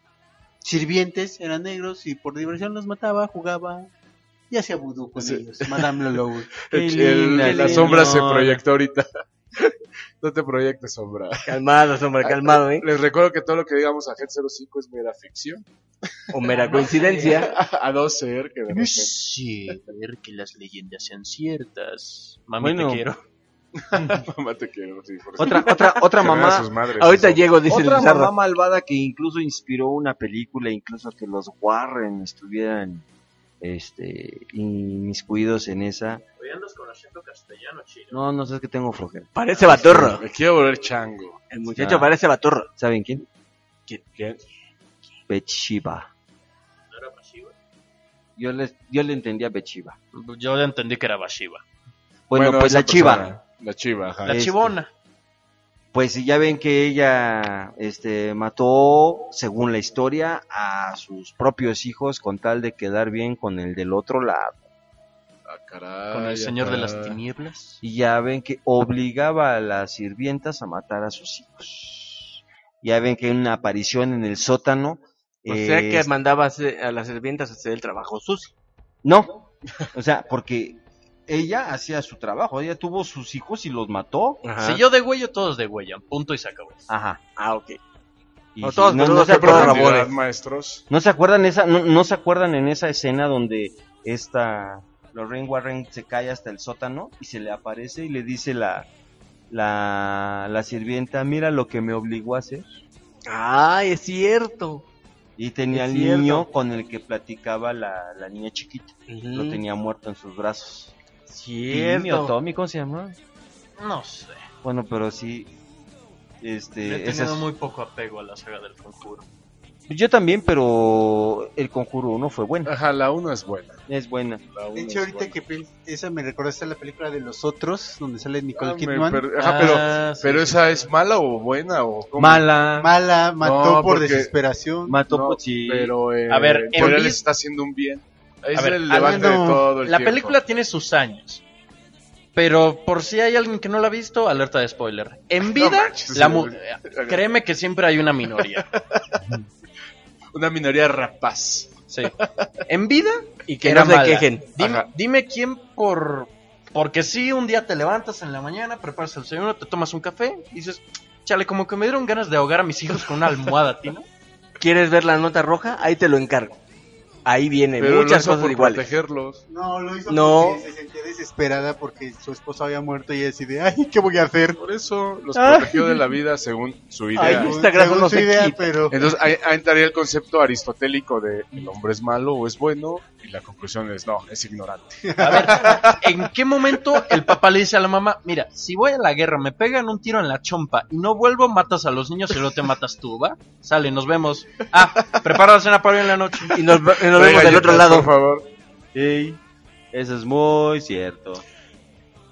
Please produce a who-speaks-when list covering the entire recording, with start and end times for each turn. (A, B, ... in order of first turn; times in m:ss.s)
0:00.6-0:03.9 A
0:04.5-0:06.5 A
0:05.2-0:05.8 B
0:06.6-0:09.1 B
0:06.7-0:08.6 C
0:07.4-0:07.9 A
0:09.6-0:11.6 B
0:11.4-0:12.9 D
0:12.2-0:15.6 B
0:16.3-0:17.5 D
0:16.5-0:17.4 E
0:17.3-0:19.1 B
0:18.7-0:23.2 E
0:22.6-0:23.0 C
0:23.8-0:27.5 B
0:25.4-0:26.7 C
0:27.0-0:28.3 D
0:27.7-0:33.0 C
0:33.6-0:36.2 C
0:36.4-0:38.2 E
0:38.1-0:39.3 C
0:39.3-0:40.2 D
0:39.7-0:41.4 B
0:41.5-0:42.7 D
0:41.8-0:42.1 C
0:42.8-0:43.3 C
0:45.3-0:46.1 C
0:46.9-0:47.5 E
0:48.4-0:50.0 C
0:50.1-0:51.6 E
0:52.3-0:53.3 C
0:52.3-0:54.5 B
0:54.2-0:54.9 E
0:54.2-0:54.7 C
0:55.9-1:04.6 C
1:05.4-1:07.2 B
1:06.1-1:07.8 E
1:07.8-1:16.1 C
1:15.4-1:18.5 D
1:19.0-1:24.4 C
1:24.4-1:24.8 D
1:24.6-1:26.8 E
1:26.9-1:27.2 C
1:27.4-1:27.8 D
1:28.6-1:30.0 C
1:28.6-1:30.1 D
1:29.2-1:30.8 B
1:30.9-1:38.9 C
1:39.5-1:42.7 C
1:43.3-1:44.8 D
1:45.4-1:50.9 C
1:45.7-1:46.4 D
1:49.1-1:49.6 D
1:51.3-1:52.3 D
1:51.7-1:53.2 C
1:53.8-1:54.4 E
1:54.6-1:55.5 C
1:56.4-1:57.5 C
1:56.8-1:59.2 E
1:59.9-2:02.7 C
2:02.6-2:03.8 B
2:03.9-2:04.4 C
2:04.5-2:05.3 B
2:04.7-2:09.8 A
2:08.5-2:12.6 B
2:09.3-2:10.9 E
2:12.2-2:12.9 C
2:12.8-2:15.0 A
2:13.4-2:14.3 B
2:14.9-2:15.9 C
2:15.0-2:20.4 B
2:16.3-2:17.2 E
2:18.5-2:21.4 E
2:18.9-2:19.7 A
2:22.3-2:28.7 E
2:25.4-2:27.2 B
2:28.7-2:29.4 B
2:30.3-2:32.5 B
2:32.7-2:44.0 E
2:33.5-2:34.4 D
2:34.6-2:34.9 B
2:44.6-2:46.6 D
2:47.2-2:48.8 D
2:47.8-2:49.4 B
2:49.5-2:54.6 A
2:50.1-2:50.6 D
2:54.6-2:57.5 B
2:55.4-2:55.7 D
2:57.1-2:58.6 D
2:57.2-2:59.1 A
2:58.9-3:06.0 B
3:05.0-3:05.9 A
3:05.2-3:16.6 E
3:14.6-3:15.3 B
3:16.5-3:18.1 D
3:17.0-3:18.4 B
3:18.9-3:19.4 C
3:19.9-3:21.4 C